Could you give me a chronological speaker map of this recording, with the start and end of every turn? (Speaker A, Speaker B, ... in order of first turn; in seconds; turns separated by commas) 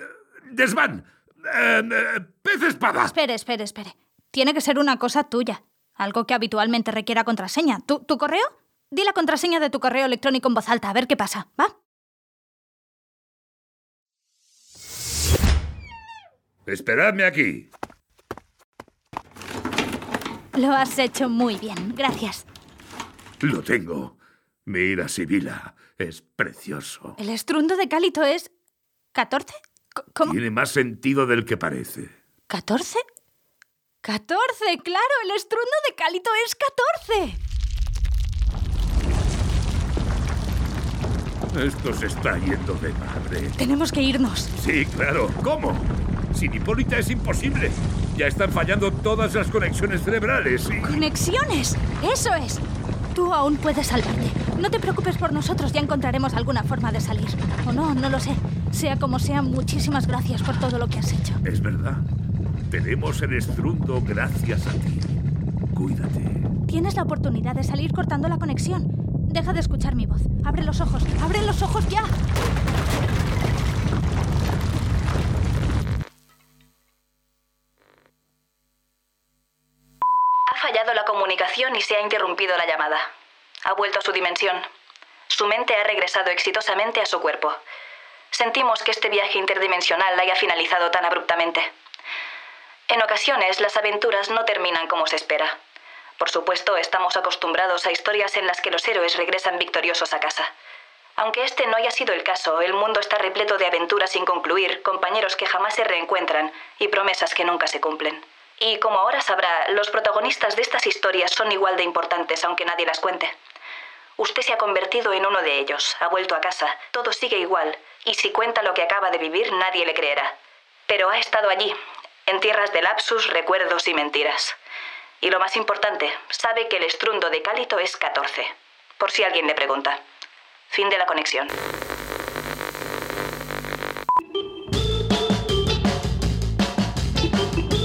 Speaker A: 0.5-3.1, Speaker B: 3.1-11.7, Speaker A: 16.7-17.7, Speaker B: 20.6-22.5, Speaker A: 23.4-27.2, Speaker B: 27.2-28.5, Speaker B: 29.1-30.4, Speaker A: 30.2-32.1, Speaker B: 32.5-33.0, Speaker B: 34.0-37.4, Speaker A: 41.5-43.6, Speaker B: 43.6-44.5, Speaker A: 44.6-51.0, Speaker B: 50.8-61.4, Speaker A: 61.4-62.0, Speaker A: 62.7-65.1, Speaker A: 65.7-66.5, Speaker B: 66.7-72.1, Speaker C: 80.5-83.1, Speaker C: 83.7-84.7, Speaker C: 85.3-87.6, Speaker C: 88.3-91.7, Speaker C: 92.9-95.6, Speaker C: 96.2-100.5, Speaker C: 101.2-113.3, Speaker C: 114.2-120.3, Speaker C: 120.9-124.6, Speaker C: 125.2-130.0, Speaker C: 130.7-131.5